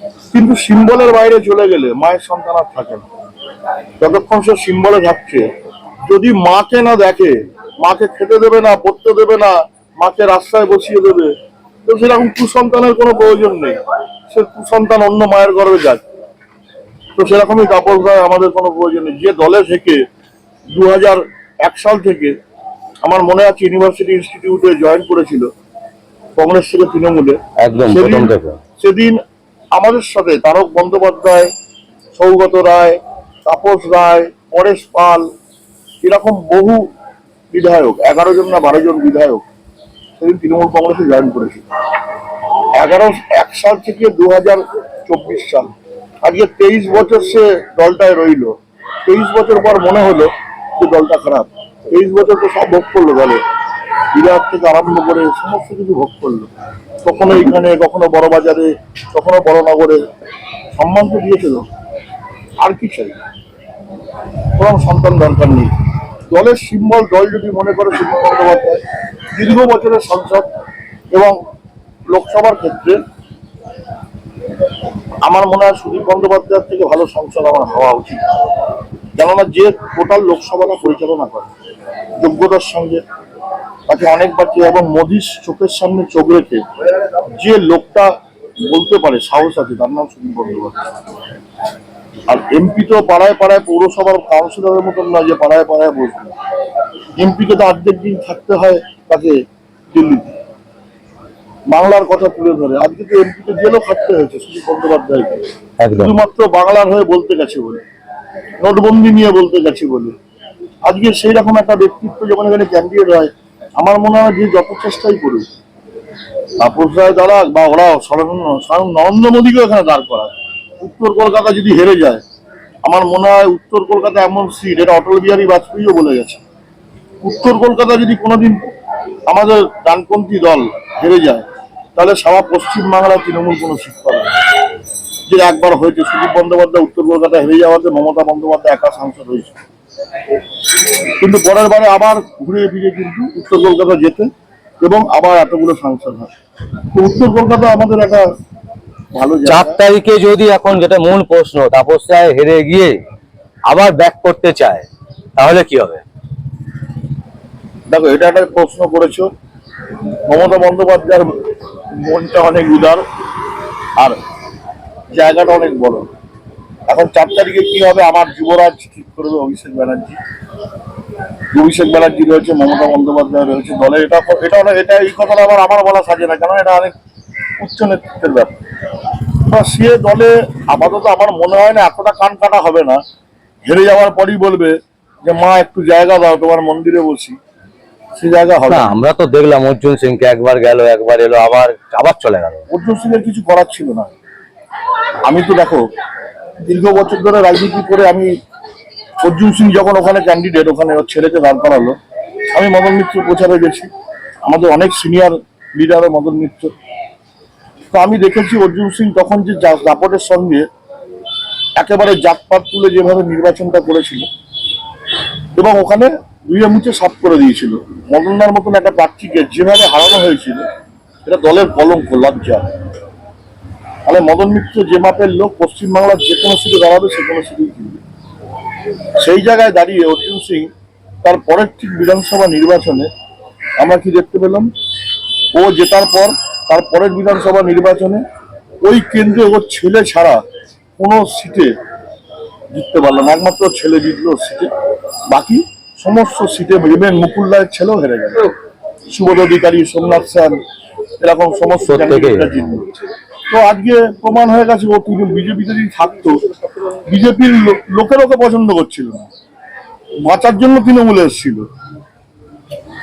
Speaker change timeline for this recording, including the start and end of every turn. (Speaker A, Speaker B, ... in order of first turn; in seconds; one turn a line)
Speaker A: 0.3-3.1
Speaker A: 4.0-5.5
Speaker A: 6.1-11.3
Speaker A: 11.9-16.0
Speaker A: 17.2-20.0
Speaker A: 20.7-22.4
Speaker A: 23.0-25.5
Speaker A: 26.4-29.2
Speaker B: 27.6-28.6
Speaker A: 29.7-31.5
Speaker A: 32.1-35.3
Speaker A: 36.0-36.8
Speaker A: 37.5-39.5
Speaker A: 40.2-41.6
Speaker A: 42.8-45.7
Speaker A: 46.2-53.4
Speaker A: 54.1-56.5
Speaker A: 57.0-60.0
Speaker A: 60.8-61.7
Speaker A: 62.6-63.2
Speaker A: 64.6-65.7
Speaker A: 66.3-68.8
Speaker A: 69.3-70.5
Speaker A: 72.1-73.0
Speaker A: 75.3-78.3
Speaker A: 79.2-81.5
Speaker A: 82.2-83.0
Speaker A: 83.9-86.7
Speaker A: 87.4-88.1
Speaker A: 88.7-90.9
Speaker A: 92.3-96.3
Speaker A: 97.2-99.4
Speaker A: 99.9-100.3
Speaker A: 101.7-107.8
Speaker B: 105.8-106.2
Speaker A: 108.6-110.2
Speaker A: 110.8-115.5
Speaker A: 116.6-122.2
Speaker A: 122.8-126.4
Speaker A: 127.2-128.7
Speaker A: 129.3-131.4
Speaker A: 132.0-134.4
Speaker A: 135.3-139.6
Speaker A: 141.2-144.3
Speaker A: 144.8-146.3
Speaker A: 146.9-148.3
Speaker A: 149.1-149.8
Speaker B: 149.5-153.0
Speaker B: 153.7-156.0
Speaker A: 157.9-159.3
Speaker A: 160.3-161.3
Speaker A: 162.0-163.0
Speaker A: 165.1-166.1
Speaker A: 166.9-170.2
Speaker A: 171.5-176.9
Speaker A: 177.6-178.6
Speaker A: 179.5-183.0
Speaker A: 183.7-187.4
Speaker A: 188.2-188.9
Speaker B: 188.7-192.6
Speaker A: 192.7-194.1
Speaker A: 195.2-195.9
Speaker A: 196.6-198.3
Speaker A: 199.2-202.0
Speaker A: 202.5-203.9
Speaker A: 204.5-206.7
Speaker A: 207.9-210.7
Speaker A: 211.8-214.3
Speaker A: 215.6-220.7
Speaker A: 221.2-222.7
Speaker A: 224.1-228.0
Speaker A: 229.2-230.7
Speaker A: 231.2-233.1
Speaker A: 233.8-234.7
Speaker A: 235.5-238.2
Speaker A: 238.8-240.4
Speaker A: 241.0-241.7
Speaker A: 242.7-244.7
Speaker A: 245.3-248.6
Speaker A: 249.1-250.6
Speaker A: 251.2-252.9
Speaker B: 251.8-252.6
Speaker A: 253.5-256.4
Speaker A: 257.1-259.3
Speaker A: 260.2-261.6